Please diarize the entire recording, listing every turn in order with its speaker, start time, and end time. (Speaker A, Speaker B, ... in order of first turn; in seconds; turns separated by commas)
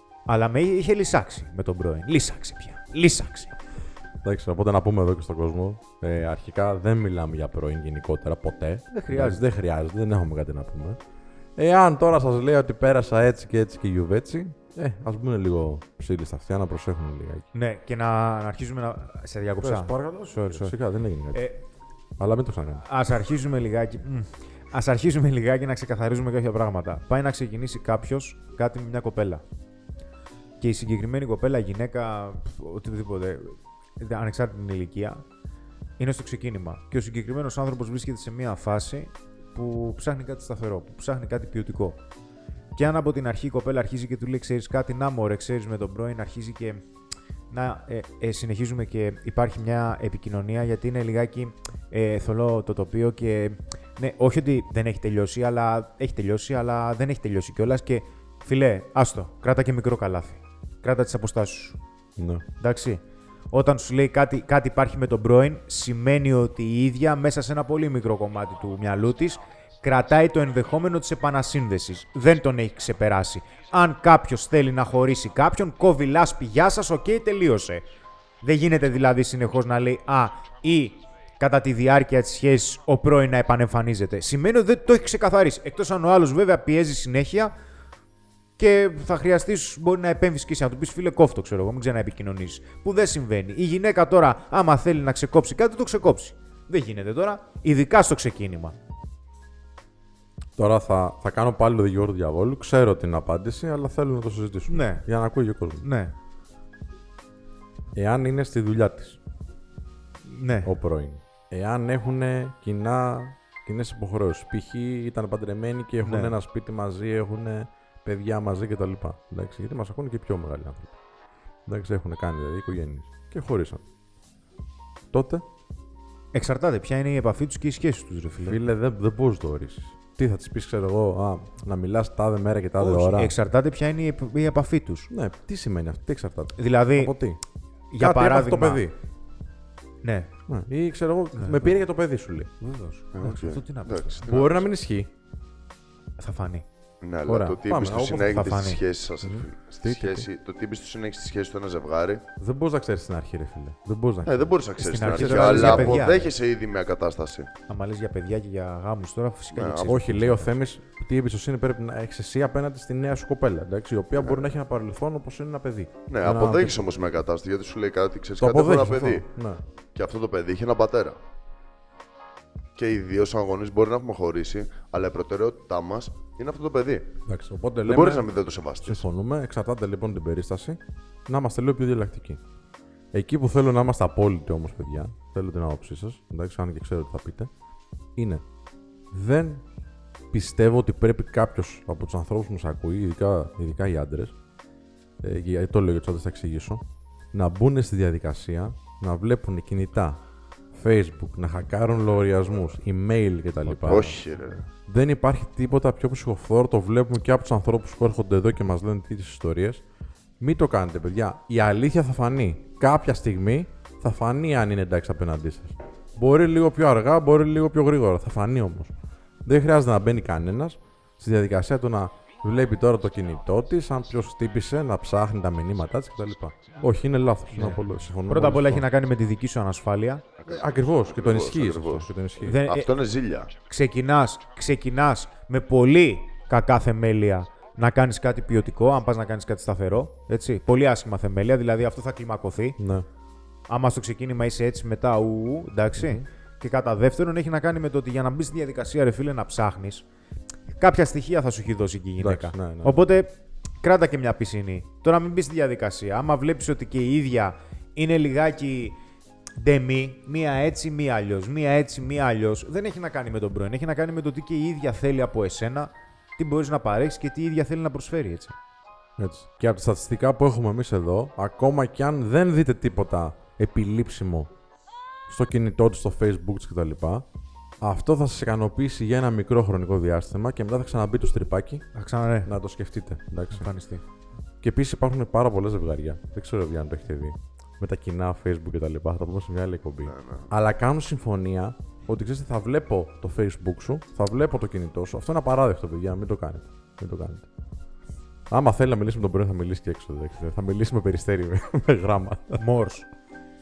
Speaker A: 0.3-3.5, Speaker B: 4.2-11.0, Speaker A: 8.9-9.4, Speaker B: 11.6-17.5, Speaker A: 17.5-20.8, Speaker B: 19.6-21.5, Speaker A: 21.3-21.6, Speaker B: 22.2-22.9, Speaker A: 22.8-29.4, Speaker A: 30.6-35.2, Speaker A: 36.0-42.0, Speaker A: 42.8-46.8, Speaker A: 47.5-61.8, Speaker B: 62.2-62.5, Speaker A: 62.6-77.9, Speaker A: 78.4-87.5, Speaker A: 88.6-98.8, Speaker B: 100.6-105.9, Speaker A: 104.7-105.1, Speaker A: 105.8-106.1, Speaker B: 108.0-109.2, Speaker A: 110.3-110.7, Speaker B: 110.7-120.9, Speaker A: 116.0-116.4, Speaker B: 121.7-123.8, Speaker B: 125.1-125.4, Speaker A: 126.3-128.6, Speaker B: 128.4-133.3, Speaker A: 132.8-135.1, Speaker B: 135.1-137.4, Speaker A: 136.6-137.2, Speaker A: 137.9-138.8, Speaker B: 138.0-138.9, Speaker A: 140.0-140.3, Speaker B: 140.5-142.5, Speaker A: 141.3-141.8, Speaker A: 142.6-144.3, Speaker C: 143.1-144.7, Speaker B: 144.3-145.1, Speaker A: 146.2-146.7, Speaker C: 147.0-152.2, Speaker B: 147.3-148.6, Speaker A: 148.3-148.8, Speaker B: 149.2-150.3, Speaker B: 152.4-156.2, Speaker C: 154.2-157.5, Speaker A: 154.8-156.3, Speaker A: 157.7-160.5, Speaker C: 159.5-160.0, Speaker B: 159.8-166.8, Speaker C: 164.2-164.5, Speaker C: 166.1-169.3, Speaker B: 168.4-169.6, Speaker C: 169.9-171.2, Speaker C: 172.8-177.2, Speaker B: 177.3-178.3, Speaker C: 177.8-179.0, Speaker B: 178.8-182.4, Speaker B: 183.1-187.5, Speaker B: 188.2-188.4, Speaker B: 189.1-189.6, Speaker B: 190.3-194.3, Speaker B: 195.2-200.2, Speaker B: 200.7-204.2, Speaker C: 203.7-204.7, Speaker B: 204.8-209.8, Speaker B: 210.4-218.9, Speaker B: 219.5-228.9, Speaker A: 227.5-230.2, Speaker C: 230.4-233.5, Speaker B: 230.5-232.6, Speaker A: 232.4-232.9, Speaker A: 233.7-242.8, Speaker B: 242.8-243.1, Speaker A: 243.7-250.1, Speaker B: 246.0-246.2, Speaker A: 250.8-259.0, Speaker B: 252.2-253.1, Speaker A: 259.6-268.6, Speaker B: 269.2-274.5, Speaker B: 275.3-277.3, Speaker B: 277.8-281.9, Speaker A: 281.9-282.5, Speaker B: 282.4-283.7, Speaker A: 283.5-284.0, Speaker B: 284.6-297.5, Speaker C: 290.1-290.5, Speaker B: 298.5-302.6, Speaker A: 302.6-303.1